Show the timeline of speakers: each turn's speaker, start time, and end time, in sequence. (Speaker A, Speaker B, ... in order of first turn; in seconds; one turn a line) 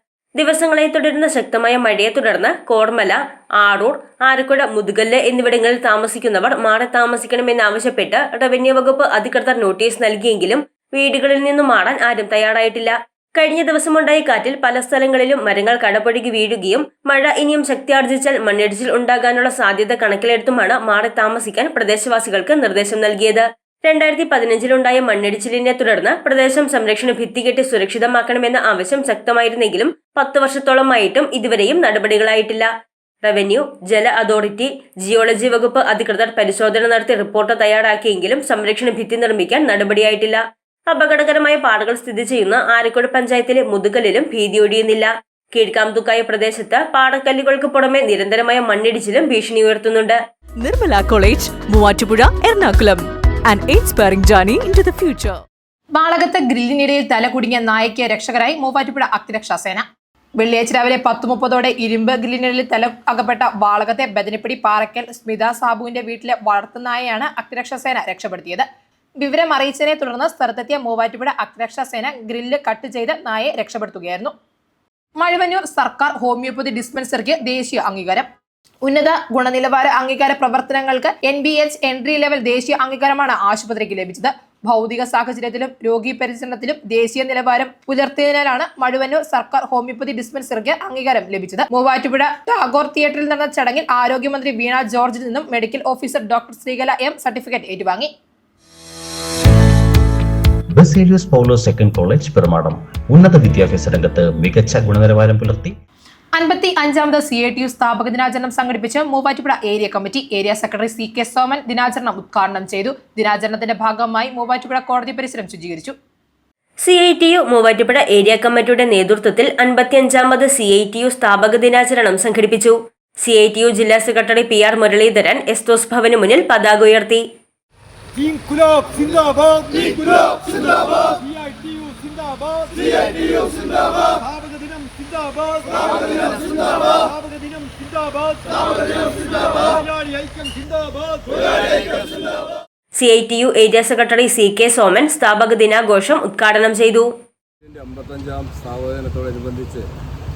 Speaker A: 0.4-32.7
Speaker A: 33.2-50.2
Speaker B: 50.6-55.4
Speaker C: 55.9-59.8
Speaker C: 60.4-68.6
Speaker C: 69.2-74.3
Speaker C: 75.2-78.3
Speaker C: 78.8-98.1
Speaker D: 100.7-105.7
Speaker C: 106.4-115.9
Speaker A: 116.8-127.2
Speaker E: 128.2-138.9
Speaker E: 139.4-141.6
Speaker A: 142.9-147.1
Speaker F: 147.6-149.8